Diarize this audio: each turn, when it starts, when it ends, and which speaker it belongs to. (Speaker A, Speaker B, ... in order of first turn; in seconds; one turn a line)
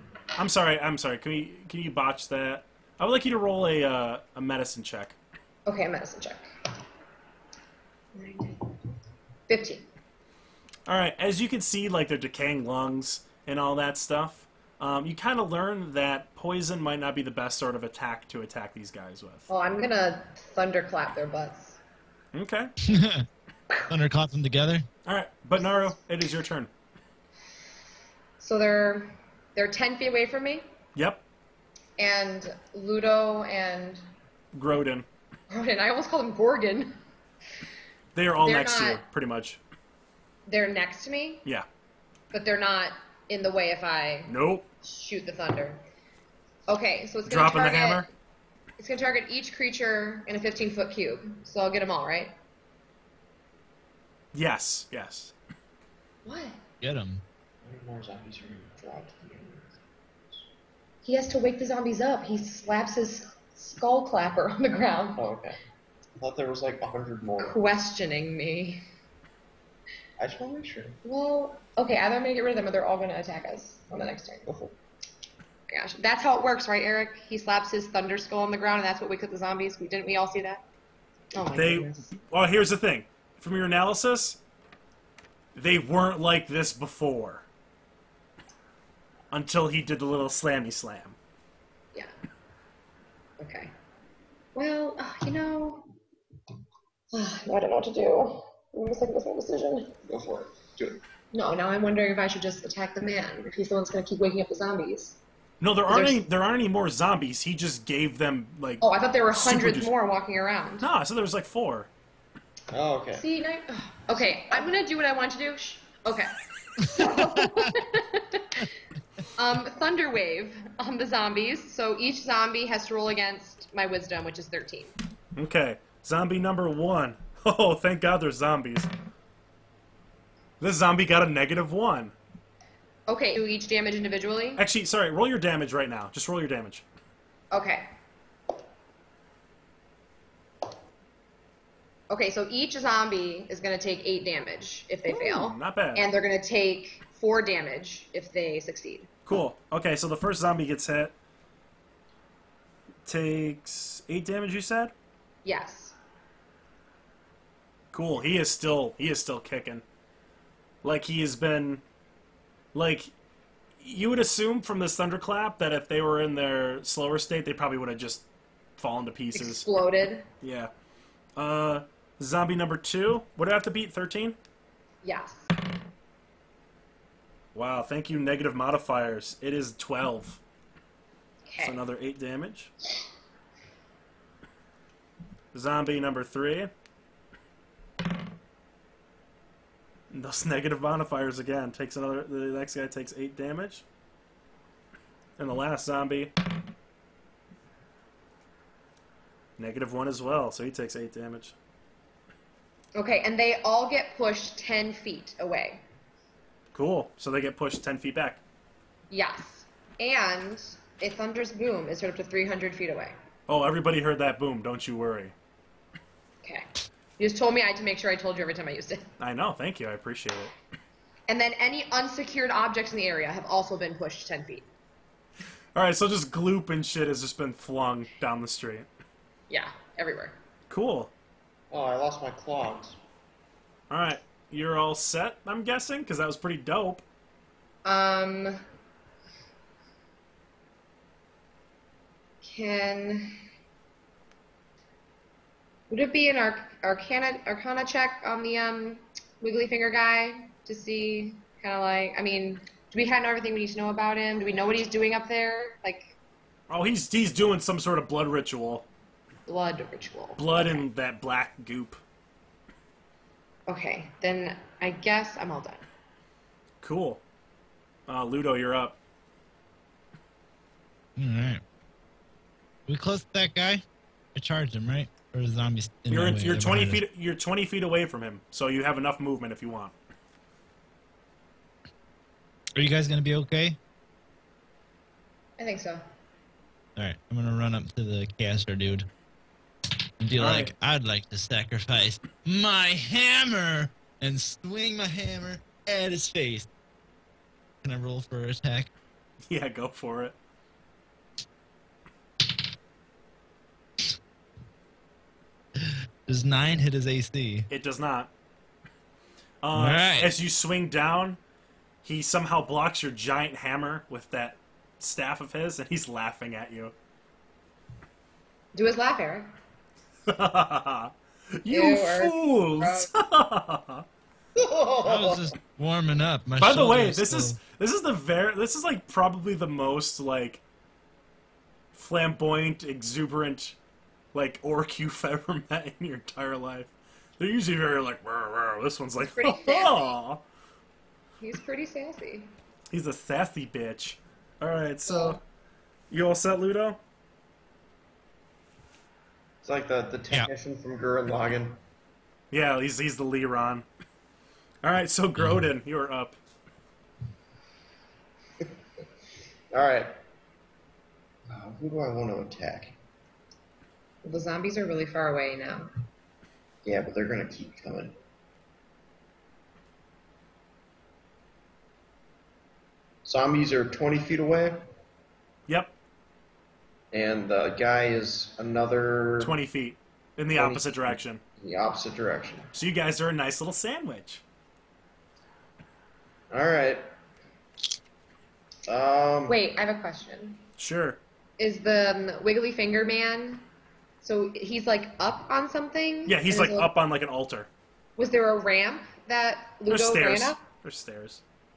Speaker A: 0.4-5.2
Speaker B: 5.7-6.5
Speaker B: 8.1-8.6
Speaker B: 9.5-9.9
Speaker A: 10.9-19.5
Speaker B: 19.5-21.8
Speaker A: 22.3-22.7
Speaker C: 22.8-23.2
Speaker C: 23.9-24.9
Speaker A: 25.0-26.7
Speaker B: 28.4-30.6
Speaker A: 30.9-31.2
Speaker B: 32.0-34.0
Speaker A: 34.5-35.0
Speaker B: 35.5-37.0
Speaker A: 38.1-39.6
Speaker B: 38.4-39.0
Speaker B: 40.5-41.4
Speaker B: 42.3-45.8
Speaker A: 44.3-44.7
Speaker B: 46.7-48.1
Speaker A: 47.2-48.1
Speaker B: 48.8-52.3
Speaker A: 54.3-55.3
Speaker B: 56.2-56.6
Speaker C: 56.8-57.2
Speaker D: 57.6-59.7
Speaker B: 61.0-65.2
Speaker D: 65.2-65.6
Speaker D: 66.2-67.6
Speaker B: 67.4-68.8
Speaker D: 70.2-71.0
Speaker B: 71.0-74.6
Speaker B: 75.7-80.6
Speaker B: 81.3-82.1
Speaker A: 81.5-84.4
Speaker A: 85.5-87.5
Speaker A: 89.3-91.2
Speaker B: 93.4-93.7
Speaker B: 94.5-95.9
Speaker B: 97.1-99.9
Speaker D: 100.1-101.0
Speaker B: 101.3-105.2
Speaker A: 105.6-109.9
Speaker B: 105.9-106.2
Speaker B: 108.8-110.9
Speaker A: 110.8-111.9
Speaker D: 112.7-113.2
Speaker B: 113.1-118.7
Speaker B: 119.3-124.9
Speaker A: 125.4-128.9
Speaker A: 130.6-132.1
Speaker B: 133.1-134.6
Speaker A: 134.6-136.8
Speaker B: 137.5-137.8
Speaker B: 142.1-149.1
Speaker A: 145.1-146.1
Speaker A: 149.2-151.1
Speaker A: 153.1-154.9
Speaker B: 155.4-155.9
Speaker A: 157.9-159.8
Speaker A: 160.8-161.8
Speaker A: 162.7-163.1
Speaker A: 163.8-168.2
Speaker A: 168.8-169.7
Speaker B: 169.3-170.2
Speaker A: 170.4-170.7
Speaker A: 171.4-174.4
Speaker B: 175.0-175.5
Speaker A: 177.5-180.4
Speaker B: 181.5-181.8
Speaker A: 181.6-182.7
Speaker A: 185.5-186.7
Speaker A: 190.1-193.8
Speaker A: 195.4-196.3
Speaker A: 199.6-201.5
Speaker B: 202.9-205.8
Speaker A: 206.7-208.4
Speaker B: 209.1-213.1
Speaker A: 213.5-215.3
Speaker B: 217.2-219.0
Speaker A: 219.2-220.5
Speaker B: 221.3-224.7
Speaker A: 225.8-228.9
Speaker B: 229.5-230.3
Speaker A: 230.7-231.1
Speaker D: 231.7-233.0
Speaker A: 233.9-237.0
Speaker B: 237.8-238.6
Speaker B: 242.4-243.3
Speaker B: 245.9-256.1
Speaker A: 256.7-258.9
Speaker B: 259.5-260.8
Speaker A: 260.4-262.0
Speaker B: 263.7-265.8
Speaker A: 266.8-267.2
Speaker A: 268.1-269.0
Speaker C: 271.2-271.6
Speaker C: 272.9-273.8
Speaker C: 274.3-277.0
Speaker A: 276.1-279.9
Speaker C: 282.8-283.8
Speaker B: 285.6-286.0
Speaker C: 287.0-289.1
Speaker C: 290.2-296.7
Speaker A: 290.4-290.7
Speaker C: 297.8-298.9
Speaker A: 299.5-300.3
Speaker C: 305.8-307.7
Speaker A: 307.7-308.3
Speaker A: 309.6-311.4
Speaker C: 309.7-310.3
Speaker A: 312.0-316.9
Speaker B: 318.7-319.5
Speaker A: 320.3-324.0
Speaker B: 321.7-323.1
Speaker D: 324.6-325.5
Speaker C: 325.0-327.6
Speaker A: 326.6-330.6
Speaker A: 331.9-333.8
Speaker A: 334.3-340.4
Speaker B: 339.3-340.2
Speaker B: 341.4-342.5
Speaker A: 342.9-345.4
Speaker B: 345.1-345.4
Speaker A: 346.1-347.0
Speaker D: 349.6-351.8
Speaker A: 352.5-353.8
Speaker A: 354.8-356.4
Speaker C: 355.4-355.7
Speaker D: 359.7-360.1
Speaker D: 361.5-362.9
Speaker B: 364.2-365.9
Speaker D: 366.8-368.1
Speaker D: 373.2-374.8
Speaker A: 375.7-375.9
Speaker D: 377.1-379.5
Speaker A: 379.4-381.4
Speaker D: 380.5-382.7
Speaker A: 382.7-384.4
Speaker D: 386.5-387.0
Speaker D: 388.8-389.6
Speaker B: 389.5-390.6
Speaker A: 390.8-391.2
Speaker B: 391.6-393.7
Speaker B: 394.2-396.9
Speaker A: 396.2-397.7
Speaker B: 398.2-400.6
Speaker A: 399.9-401.4